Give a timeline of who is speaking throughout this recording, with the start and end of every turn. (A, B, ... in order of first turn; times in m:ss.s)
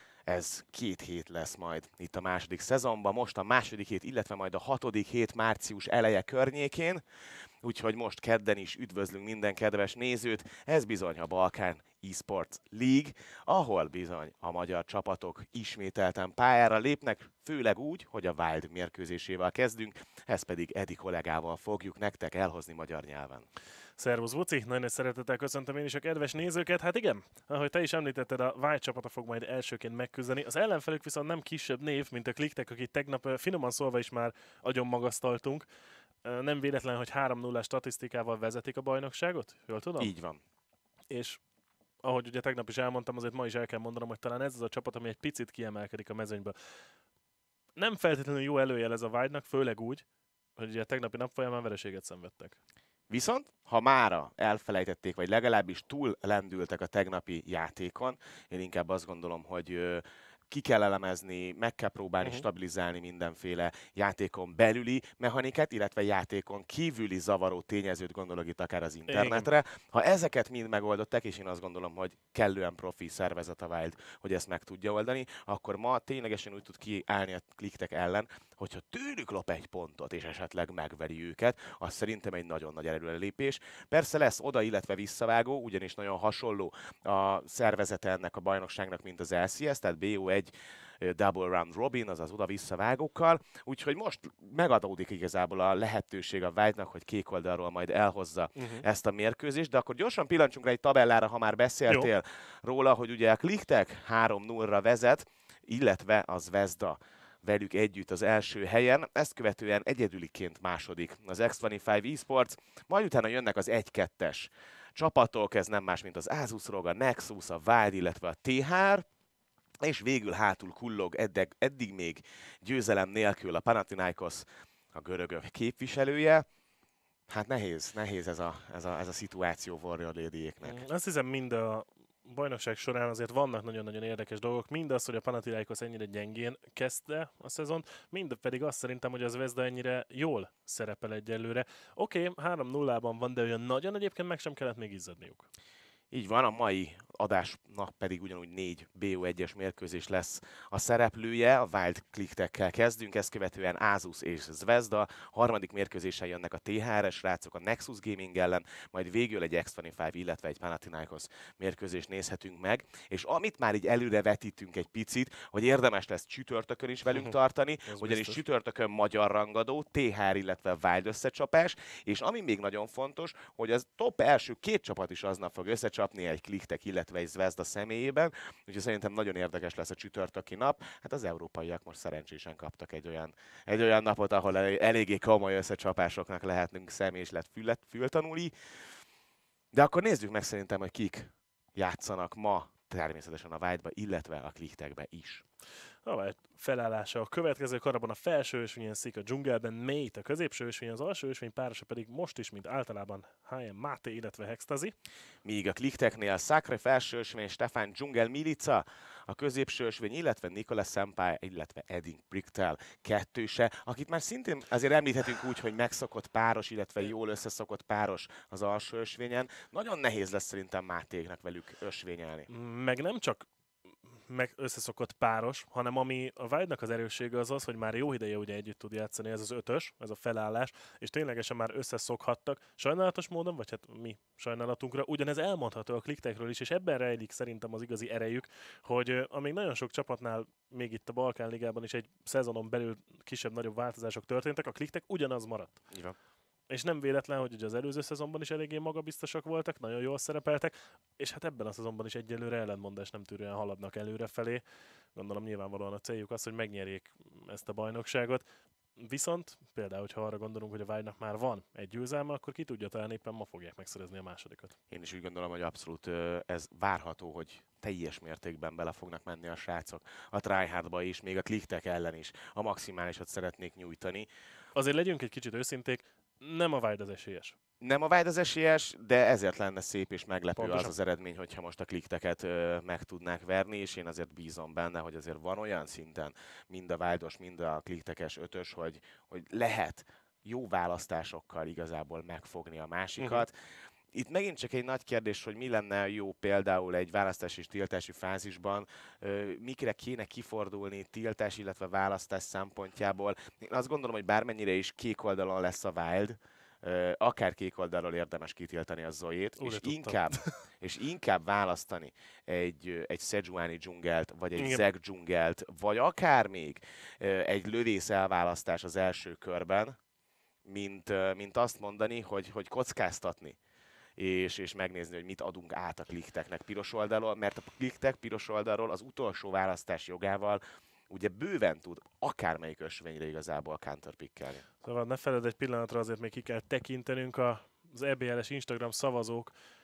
0:00.3-0:07.0 A
0:07.6-0:23.5 A
0:24.0-0:35.6 B
0:36.2-0:40.1 B
0:40.0-0:40.4 A
0:41.1-0:41.4 B
0:42.0-0:46.6 B
0:47.8-0:50.0 B
0:50.6-0:52.6 B
0:53.1-1:59.0 A
1:09.1-1:09.5 B
1:38.6-1:38.8 B
1:59.8-2:06.4 A
2:07.3-2:10.8 A
2:10.6-2:25.5 B
2:26.1-3:08.5 A
2:47.9-2:48.4 B
3:09.7-3:15.4 A
3:16.0-3:24.9 B
3:25.4-3:42.5 A
3:42.5-3:43.5 B
3:44.1-4:05.8 B
4:06.7-4:14.6 B
4:15.1-4:18.4 B
4:19.0-4:24.7 B
4:24.9-4:34.3 A
4:34.7-4:37.6 B
4:37.8-4:53.5 A
4:40.6-4:40.9 B
4:53.2-4:53.4 B
4:54.1-5:20.0 A
5:09.6-5:10.5 B
5:14.6-5:14.8 B
5:20.6-5:23.6 A
5:24.2-5:34.6 A
5:34.8-5:39.5 B